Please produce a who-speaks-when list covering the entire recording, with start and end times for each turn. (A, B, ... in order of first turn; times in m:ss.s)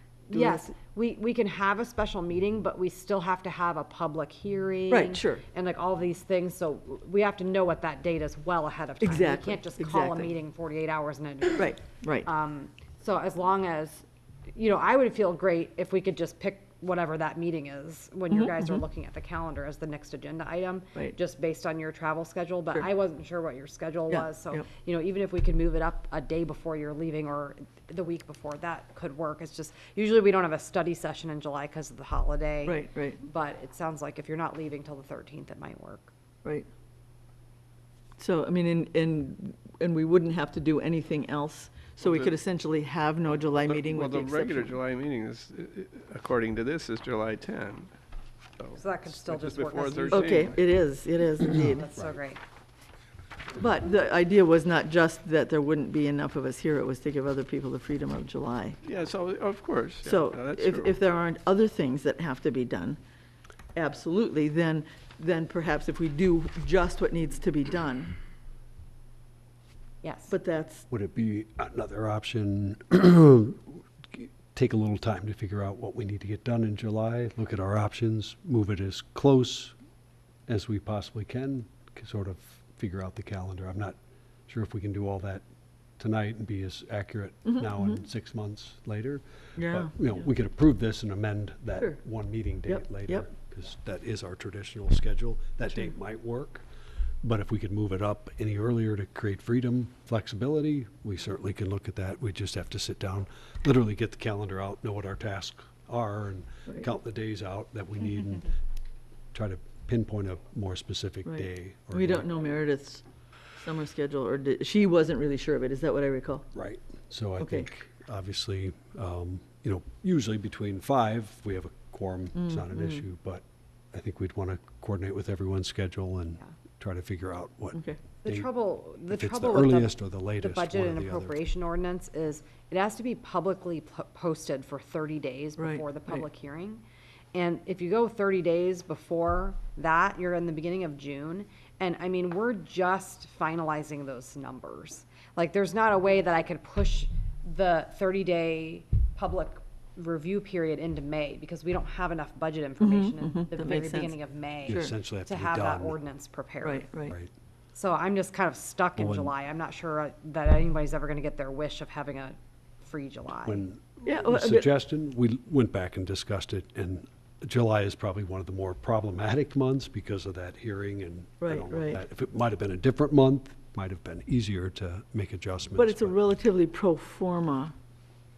0:00.3-0:00.7 A
0:00.3-0:36.1 B
0:04.9-0:05.4 A
0:09.0-0:10.3 A
0:11.6-0:12.3 A
0:18.3-0:18.8 A
0:24.1-0:24.6 A
0:32.7-0:33.2 A
0:38.2-0:44.8 A
0:42.0-0:42.3 C
0:43.6-0:47.9 C
0:48.6-0:50.7 C
0:48.8-0:50.6 B
0:50.1-0:51.9 A
0:51.6-0:52.4 B
0:53.6-0:58.8 A
0:58.8-1:01.0 C
1:00.0-1:03.0 A
1:03.8-1:08.2 A
1:10.0-1:10.4 B
1:10.3-1:10.9 A
1:10.9-1:19.8 D
1:20.5-1:24.0 D
1:24.5-1:25.4 D
1:26.0-1:36.6 D
1:27.4-1:28.0 A
1:29.6-1:30.3 A
1:32.7-1:33.3 A
1:37.2-1:48.5 D
1:49.3-1:52.3 D
1:51.2-1:53.0 A
1:53.6-1:56.4 A
1:56.5-2:08.5 D
1:57.4-1:57.7 A
2:02.4-2:03.0 A
2:08.2-2:16.8 B
2:09.1-2:11.4 D
2:15.6-2:16.2 A
2:17.3-2:36.9 B
2:32.8-2:34.1 A
2:34.7-2:36.0 D
2:36.6-2:37.1 A
2:37.7-2:43.6 B
2:39.0-2:39.3 D
2:43.4-2:56.2 D
2:44.0-2:44.7 A
2:51.4-2:52.0 A
2:55.8-2:57.8 A